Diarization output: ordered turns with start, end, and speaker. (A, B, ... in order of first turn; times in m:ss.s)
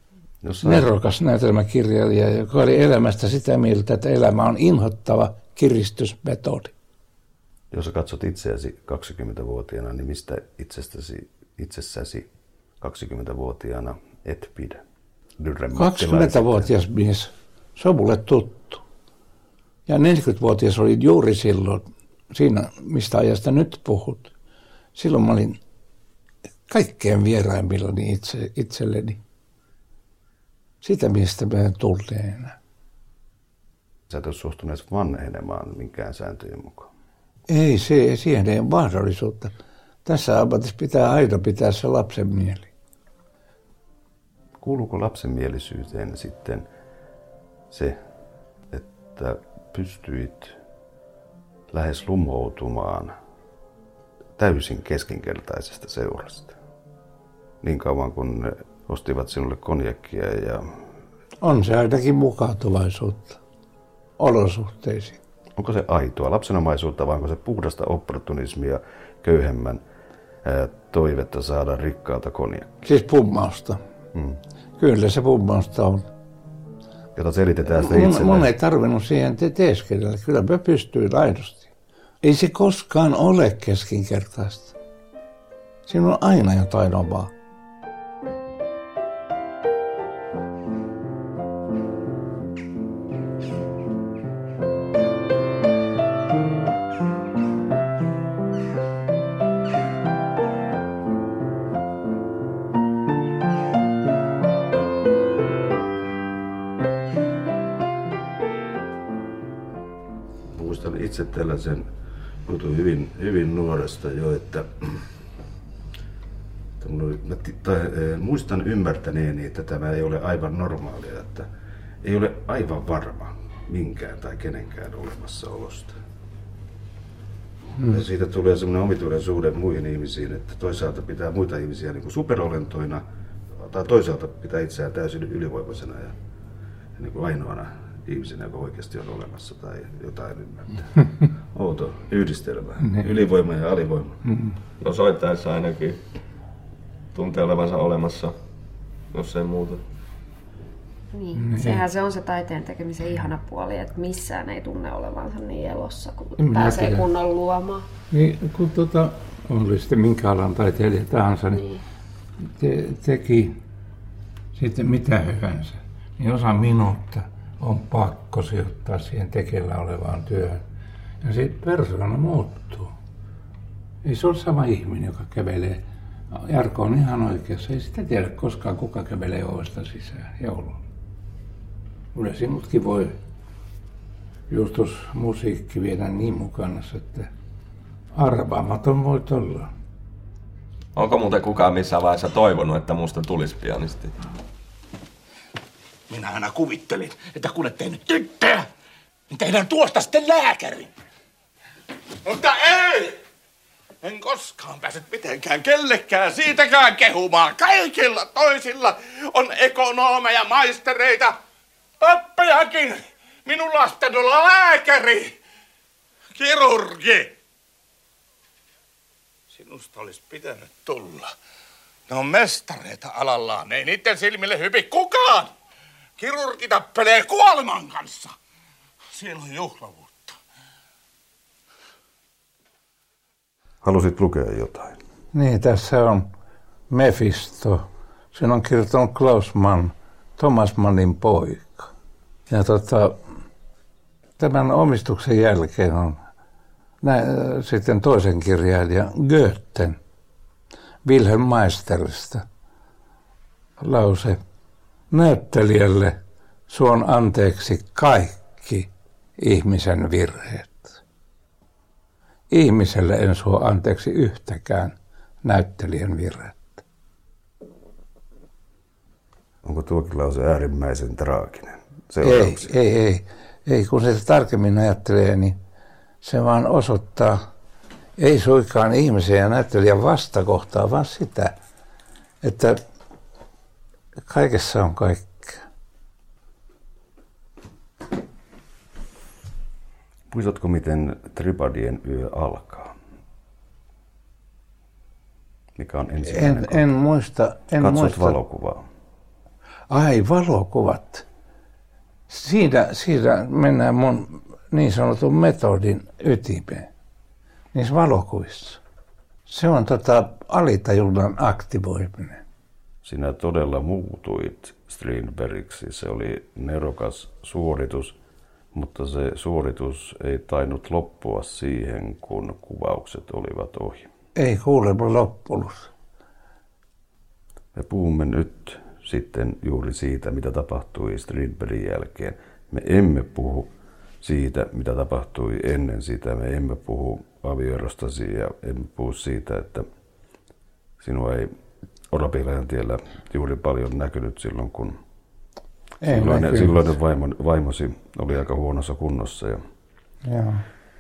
0:00.4-0:00.9 A
0:00.6-0:06.7 B
0:07.7-0:12.3 A
0:12.8-0:14.8 A
0:15.4-0:16.7 A
0:15.8-0:18.8 B
0:19.9-0:24.3 B
0:25.0-0:25.6 B
0:26.7-0:29.2 B
0:30.8-0:32.6 B
0:34.1-0:36.9 A
0:37.5-0:39.5 B
0:40.0-0:42.7 B
0:44.6-0:46.7 A
0:47.7-0:48.0 A
0:48.7-0:50.6 A
0:51.7-0:53.2 A
0:54.4-0:56.6 A
0:57.6-1:00.9 A
1:01.4-1:03.4 B
1:04.2-1:05.2 B
1:05.6-1:09.8 A
1:10.4-1:12.9 A
1:12.8-1:13.8 B
1:14.1-1:14.4 A
1:14.8-1:16.1 B
1:17.2-1:18.5 A
1:17.7-1:21.7 B
1:22.2-1:24.8 B
1:25.9-1:27.3 B
1:50.5-1:51.9 A
1:52.5-1:55.1 A
1:56.8-2:01.5 A
2:02.0-2:06.0 A
2:07.8-2:16.2 A
2:17.0-2:21.0 A
2:21.5-2:24.2 A
2:24.3-2:24.6 B
2:24.8-2:26.0 C
2:27.1-2:28.4 C
2:29.1-2:29.8 C
2:31.1-2:37.9 D
2:31.4-2:31.8 B
2:36.4-2:37.1 B
2:38.1-2:41.6 B
2:41.5-2:41.8 D
2:42.6-2:43.6 B
2:44.6-2:50.6 B
2:51.2-2:52.9 B
2:54.0-3:00.8 B
3:02.2-3:03.2 B
3:04.5-3:07.3 B
3:08.1-3:09.7 B
3:11.0-3:14.1 C
3:16.1-3:18.7 E
3:19.3-3:20.9 E
3:22.2-3:23.2 E
3:24.0-3:31.4 E
3:32.0-3:35.3 E
3:36.3-3:37.4 E
3:39.5-3:41.3 E
3:42.1-3:45.5 E
3:46.2-3:48.3 E
3:49.1-3:50.3 E
3:53.8-3:55.0 A
3:55.3-3:56.3 B
3:56.9-4:01.9 B
4:02.5-4:03.2 B
4:04.4-4:06.2 B
4:07.0-4:10.0 B
4:11.0-4:12.4 B
4:13.8-4:14.4 B
4:15.1-4:16.2 B
4:16.7-4:21.0 B
4:22.5-4:26.8 B
4:29.6-4:32.8 A
4:32.2-4:35.6 B
4:36.2-4:37.4 B
4:38.2-4:41.6 B
4:42.4-4:42.8 B
4:44.3-4:45.6 B
4:50.3-4:52.9 A
4:55.8-4:56.9 A
4:56.2-4:58.4 B
4:57.8-4:58.9 A
4:59.9-5:01.2 B
5:02.3-5:06.9 B
5:07.7-5:08.8 B
5:09.5-5:12.4 B
5:13.0-5:18.2 A
5:18.7-5:24.1 A
5:24.4-5:25.9 B
5:27.7-5:33.7 A
5:34.2-5:39.9 A
5:41.0-5:41.5 A
5:42.1-5:45.0 A
5:46.0-5:46.9 B
5:46.0-5:49.6 A
5:50.3-5:50.6 B